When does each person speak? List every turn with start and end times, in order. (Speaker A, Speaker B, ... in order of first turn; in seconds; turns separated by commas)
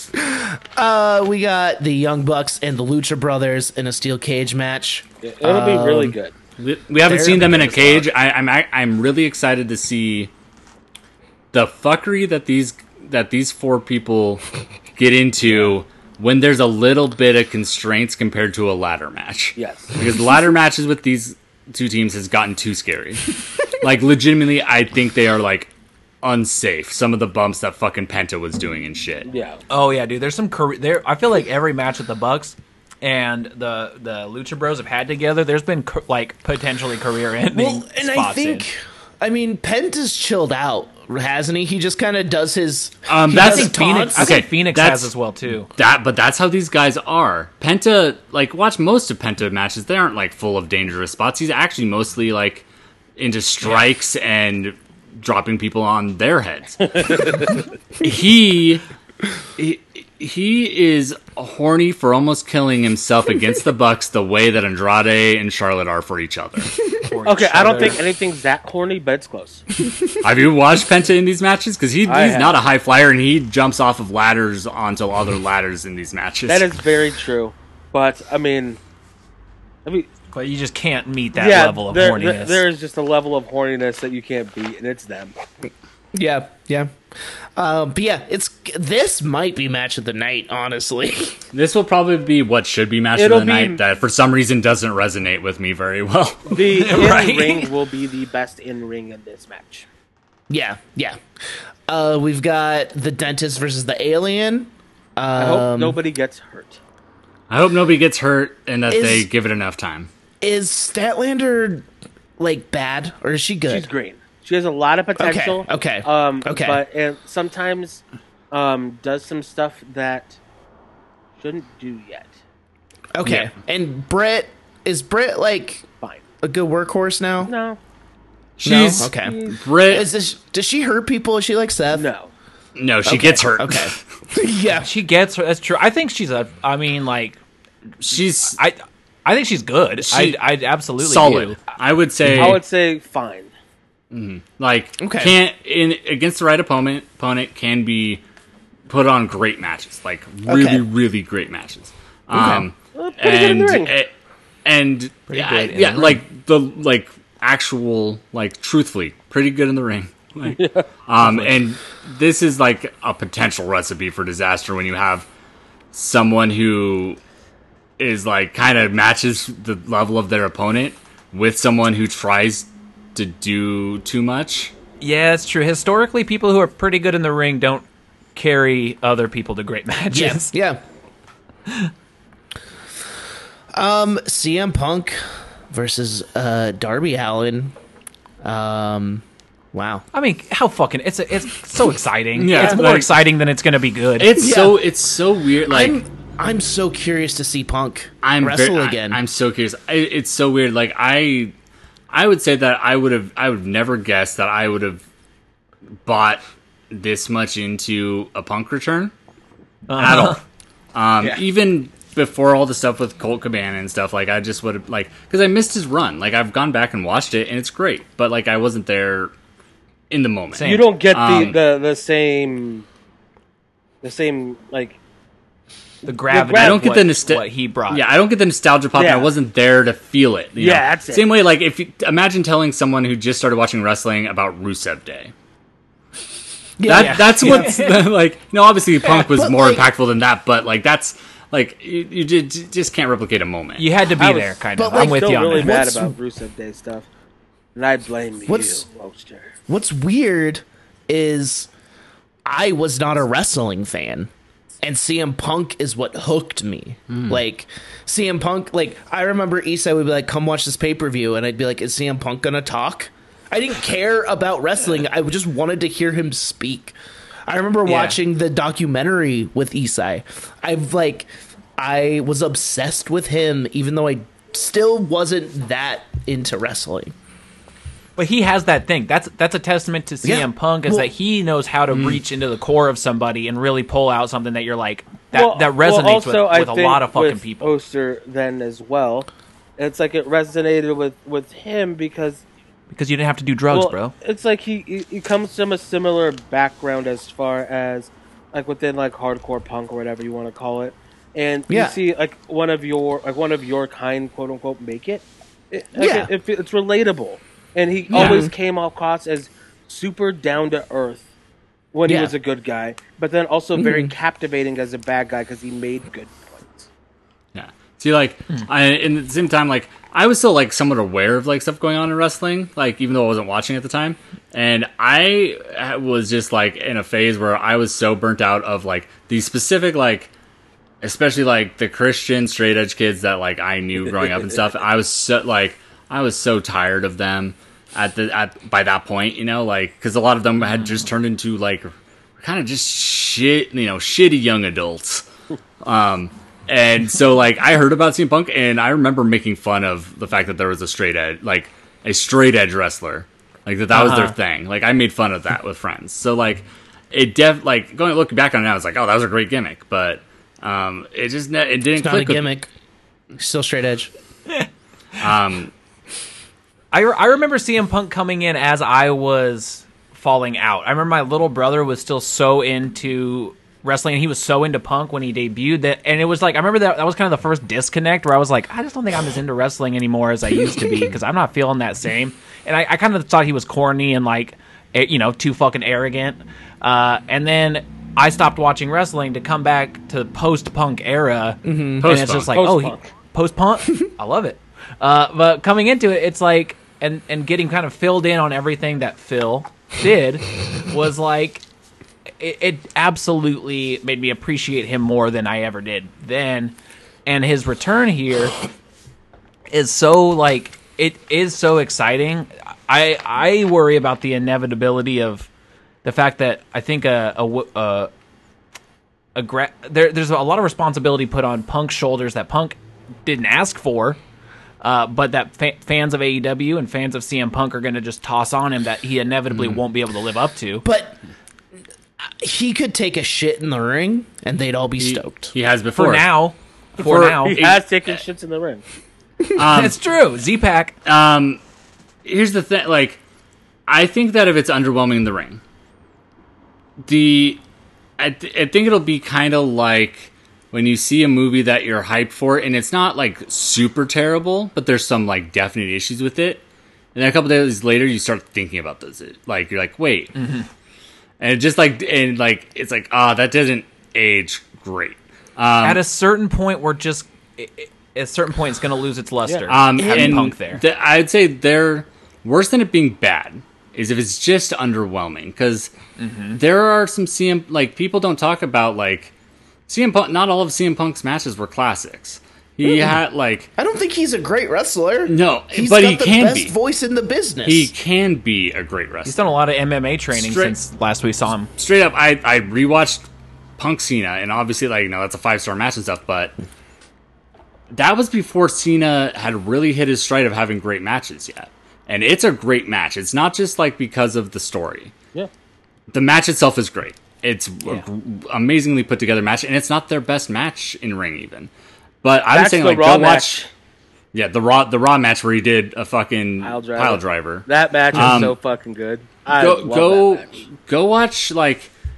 Speaker A: 0.1-6.2, Speaker B: 5.2-6.3, Speaker C: 6.6-10.3, Speaker D: 7.1-8.0, Speaker A: 7.1-7.8, Speaker C: 11.5-14.4, Speaker C: 15.0-25.7, Speaker B: 19.6-19.9, Speaker C: 26.2-29.3, Speaker B: 29.3-29.6, Speaker D: 29.7-38.6, Speaker A: 37.5-44.4, Speaker C: 43.1-45.1, Speaker D: 43.3-45.7, Speaker C: 45.7-52.6, Speaker C: 53.2-58.8, Speaker B: 57.0-57.5, Speaker C: 59.6-66.7, Speaker D: 67.1-68.0, Speaker B: 67.3-69.6, Speaker C: 70.2-76.7, Speaker B: 72.0-72.6, Speaker B: 76.5-78.8, Speaker D: 80.3-82.6, Speaker B: 81.3-85.3, Speaker A: 86.1-86.9, Speaker A: 87.5-91.4, Speaker C: 91.5-96.6, Speaker B: 93.2-93.8, Speaker B: 96.5-99.9, Speaker D: 96.7-97.7, Speaker A: 100.5-101.2, Speaker A: 101.9-106.0, Speaker B: 105.4-106.8, Speaker C: 107.5-110.1, Speaker A: 108.9-109.3, Speaker A: 110.4-111.9, Speaker A: 112.4-113.9, Speaker B: 113.7-120.4, Speaker A: 115.2-116.8, Speaker B: 121.4-122.4, Speaker A: 123.1-125.8, Speaker A: 126.4-127.5, Speaker B: 127.4-127.8, Speaker C: 128.6-130.1, Speaker A: 128.6-132.1, Speaker B: 129.1-129.6, Speaker B: 131.9-132.3, Speaker C: 132.8-134.0, Speaker A: 133.1-134.9, Speaker D: 134.8-137.4, Speaker C: 138.0-138.6, Speaker D: 138.5-141.6, Speaker C: 140.0-140.4, Speaker C: 141.0-142.6, Speaker A: 142.2-142.5, Speaker B: 142.4-143.5, Speaker C: 144.1-148.2, Speaker A: 145.0-145.3, Speaker C: 148.9-154.1, Speaker A: 150.5-150.8, Speaker A: 152.3-152.7, Speaker B: 152.9-153.9, Speaker C: 154.6-165.3, Speaker D: 155.3-156.2, Speaker B: 160.6-160.8, Speaker D: 161.2-161.6, Speaker C: 165.9-167.2, Speaker C: 168.0-174.7, Speaker D: 175.0-180.5, Speaker A: 180.1-180.8, Speaker A: 183.7-187.7, Speaker A: 188.4-190.1, Speaker D: 190.1-194.3, Speaker C: 192.4-193.2, Speaker A: 192.6-192.8, Speaker C: 194.2-196.0, Speaker A: 194.3-194.8, Speaker A: 195.7-199.2, Speaker C: 198.2-201.5, Speaker C: 202.1-205.0, Speaker C: 206.1-209.1, Speaker D: 209.9-210.4, Speaker C: 210.0-210.4, Speaker C: 210.9-219.3, Speaker C: 220.1-221.6, Speaker D: 220.5-220.9, Speaker B: 220.6-222.8, Speaker B: 224.0-225.0, Speaker D: 226.1-228.1, Speaker B: 226.3-226.8, Speaker C: 226.5-235.3, Speaker B: 228.9-229.3, Speaker B: 230.6-231.3, Speaker A: 236.8-237.8, Speaker C: 236.8-243.9, Speaker D: 236.9-238.0, Speaker A: 239.0-239.9, Speaker D: 243.8-245.8, Speaker B: 244.2-247.1, Speaker A: 244.8-246.2, Speaker B: 247.7-249.5, Speaker A: 248.5-248.8, Speaker A: 249.7-251.7, Speaker A: 252.4-254.3, Speaker A: 254.8-266.9, Speaker C: 257.1-257.4, Speaker A: 267.5-277.1, Speaker D: 267.8-268.2, Speaker D: 278.2-287.7, Speaker A: 280.2-281.1, Speaker C: 281.9-282.2, Speaker B: 285.3-292.4, Speaker D: 292.9-294.1, Speaker B: 293.7-311.2, Speaker A: 301.7-302.0, Speaker A: 305.9-306.3, Speaker A: 308.1-308.5, Speaker C: 308.1-308.4, Speaker B: 311.9-316.9, Speaker A: 312.1-312.3, Speaker A: 313.8-314.1, Speaker C: 317.5-330.3, Speaker C: 331.0-345.3, Speaker C: 345.8-362.4, Speaker D: 353.9-354.3, Speaker A: 362.0-362.7, Speaker A: 363.4-364.1, Speaker C: 365.2-365.7, Speaker D: 366.9-401.6, Speaker A: 391.6-392.1, Speaker C: 392.0-392.6, Speaker B: 392.5-393.1, Speaker D: 402.4-406.7, Speaker D: 407.3-408.6, Speaker D: 409.7-415.5, Speaker D: 416.0-418.1, Speaker D: 419.3-424.2, Speaker D: 424.8-430.8, Speaker A: 430.8-431.2, Speaker A: 432.2-435.5, Speaker C: 435.0-436.3, Speaker D: 435.9-437.6, Speaker C: 437.0-438.2, Speaker B: 437.4-438.8, Speaker C: 439.5-440.0, Speaker D: 439.6-440.9, Speaker C: 441.1-441.6, Speaker C: 442.2-443.2, Speaker C: 443.9-445.6, Speaker C: 447.1-447.6, Speaker C: 448.2-456.6, Speaker C: 457.1-460.3, Speaker D: 460.3-460.7, Speaker C: 461.4-466.0, Speaker D: 465.8-470.8, Speaker C: 469.7-475.9, Speaker A: 470.0-470.5, Speaker D: 476.2-476.6, Speaker C: 476.6-479.3, Speaker C: 479.9-483.7, Speaker A: 482.8-483.1, Speaker A: 483.8-487.9, Speaker C: 485.3-486.7, Speaker C: 487.6-489.4, Speaker D: 489.2-491.7, Speaker C: 490.3-490.8, Speaker C: 491.8-493.2, Speaker C: 493.8-496.6, Speaker C: 497.9-505.1, Speaker C: 506.1-511.7, Speaker C: 512.2-513.6, Speaker B: 512.5-513.7, Speaker C: 514.3-518.5, Speaker B: 516.6-520.5, Speaker C: 519.5-521.9